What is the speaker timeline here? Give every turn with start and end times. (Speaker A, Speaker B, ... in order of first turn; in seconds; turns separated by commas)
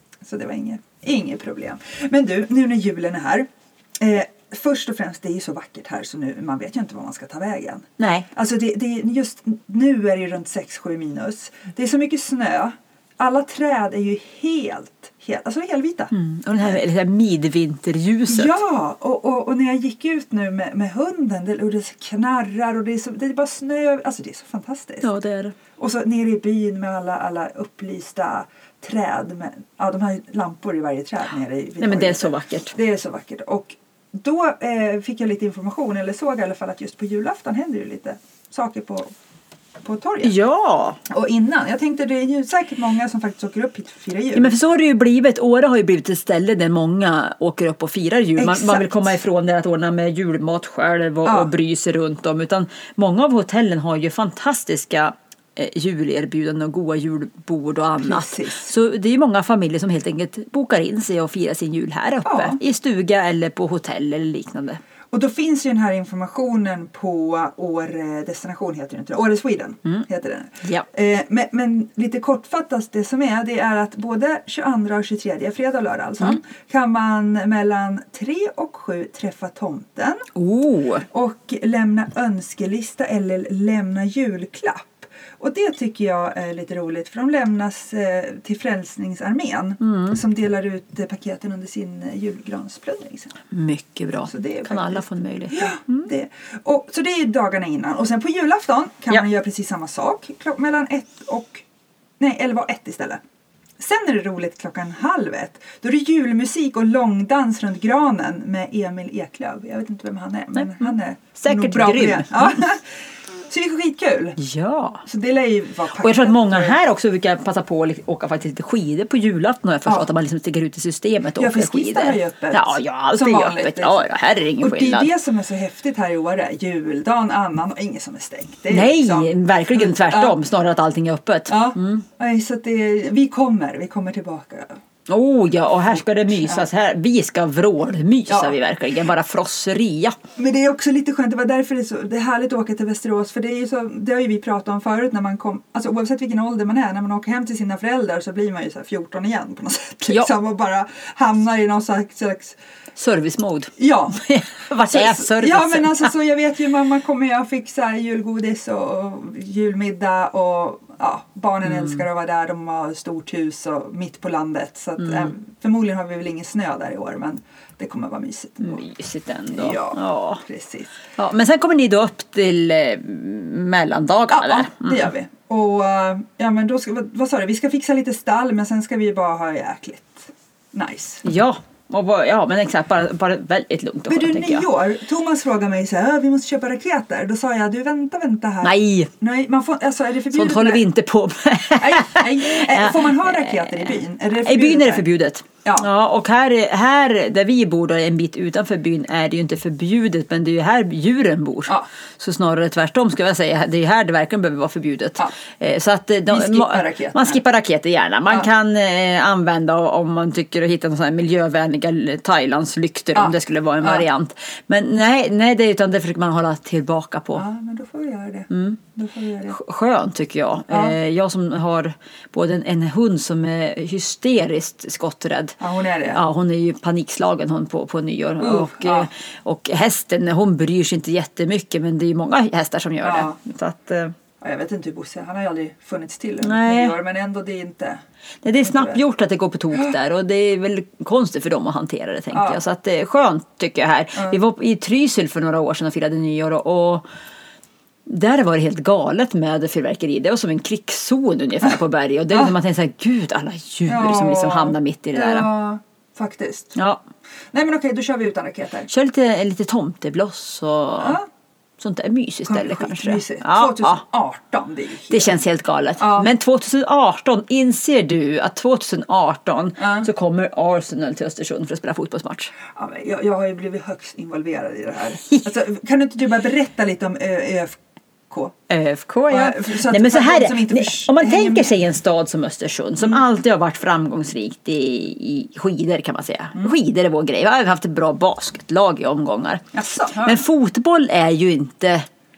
Speaker A: 0.2-16.8, Speaker B: 8.0-8.3, Speaker B: 16.1-18.6, Speaker A: 18.3-25.1, Speaker B: 25.0-25.6, Speaker A: 25.8-39.1, Speaker B: 31.8-32.7, Speaker A: 39.8-40.4, Speaker B: 40.2-41.0, Speaker A: 41.1-44.5, Speaker B: 44.3-64.8, Speaker A: 48.4-49.2, Speaker A: 51.2-51.5, Speaker A: 58.0-58.7, Speaker A: 62.2-62.6, Speaker A: 65.1-80.3, Speaker B: 80.3-81.0, Speaker A: 81.1-93.3, Speaker B: 89.8-90.2, Speaker B: 93.5-96.1, Speaker A: 94.3-101.6, Speaker A: 102.2-103.2, Speaker A: 103.8-112.9, Speaker B: 110.5-112.6, Speaker A: 113.5-114.4, Speaker B: 114.4-115.0, Speaker A: 115.0-116.8, Speaker B: 116.0-125.1, Speaker A: 121.4-124.1, Speaker A: 124.6-130.4, Speaker B: 128.7-132.1, Speaker A: 131.5-134.8, Speaker B: 135.1-140.2, Speaker A: 135.9-136.7, Speaker A: 138.3-138.5, Speaker A: 140.3-152.6, Speaker B: 153.0-156.1, Speaker A: 153.8-154.2, Speaker A: 154.9-168.8, Speaker B: 165.0-165.3, Speaker B: 168.6-170.4, Speaker A: 169.5-170.9, Speaker B: 171.2-175.1, Speaker A: 174.3-181.2, Speaker B: 181.2-184.7, Speaker A: 184.1-190.9, Speaker B: 188.6-189.1, Speaker B: 190.3-217.4, Speaker A: 191.8-195.1, Speaker A: 206.3-207.4, Speaker A: 213.1-214.1, Speaker A: 217.3-219.6, Speaker B: 218.5-218.8, Speaker B: 219.5-225.6, Speaker A: 220.7-220.9, Speaker A: 225.6-226.2, Speaker B: 226.1-234.1, Speaker A: 228.4-229.1, Speaker A: 233.0-233.4, Speaker A: 234.4-238.0, Speaker B: 236.4-236.9, Speaker B: 238.4-247.0, Speaker A: 238.6-239.0, Speaker A: 242.3-242.6, Speaker B: 248.1-255.5, Speaker A: 253.9-256.8, Speaker B: 256.8-257.0, Speaker A: 257.5-258.9, Speaker B: 258.9-261.2, Speaker A: 261.0-261.2, Speaker B: 261.8-264.0, Speaker A: 262.4-265.4, Speaker B: 265.1-272.5, Speaker A: 266.0-266.3, Speaker A: 269.8-270.1, Speaker A: 272.7-278.5, Speaker B: 278.7-292.1, Speaker A: 279.3-281.8, Speaker A: 289.7-290.4